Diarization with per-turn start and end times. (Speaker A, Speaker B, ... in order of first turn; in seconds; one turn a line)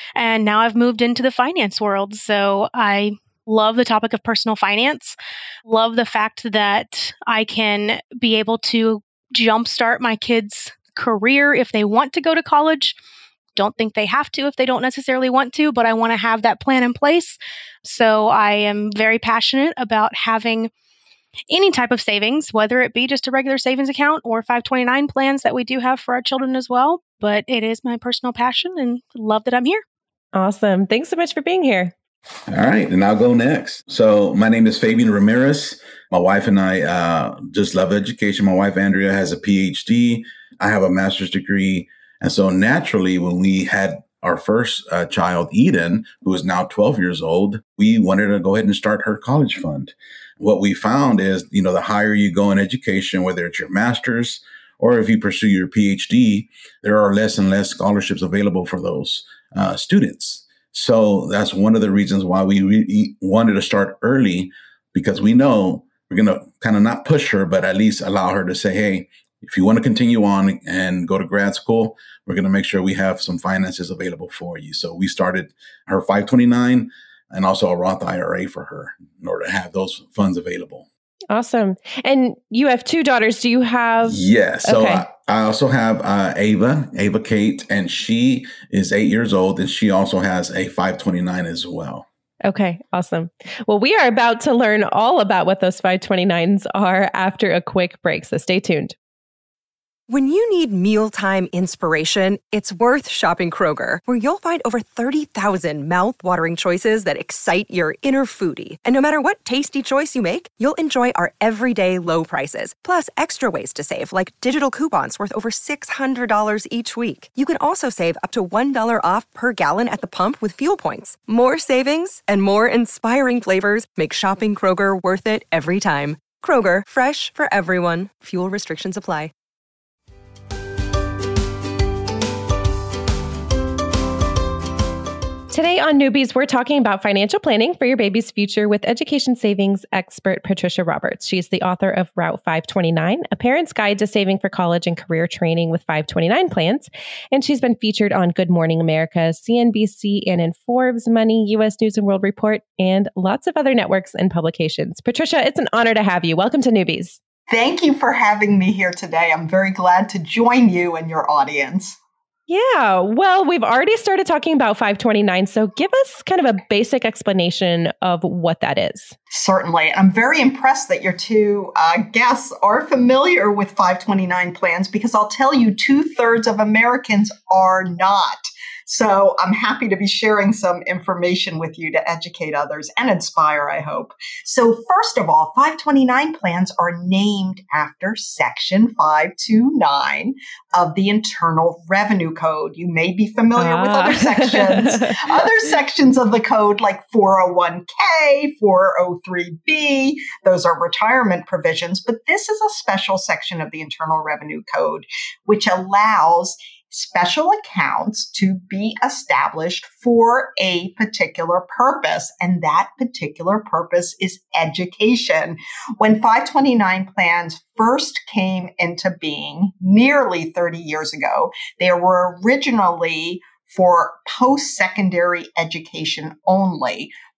Speaker A: 0.2-12.9
Speaker A: 13.6-20.7
Speaker A: 21.5-29.8
Speaker B: 30.3-31.9
Speaker C: 32.5-80.9
Speaker B: 81.3-85.0
Speaker C: 84.0-92.1
Speaker B: 92.4-99.0
Speaker D: 100.1-129.3
Speaker B: 135.5-157.2
Speaker E: 157.5-162.0
Speaker B: 162.5-169.1
Speaker E: 169.3-227.1
Speaker B: 193.6-195.2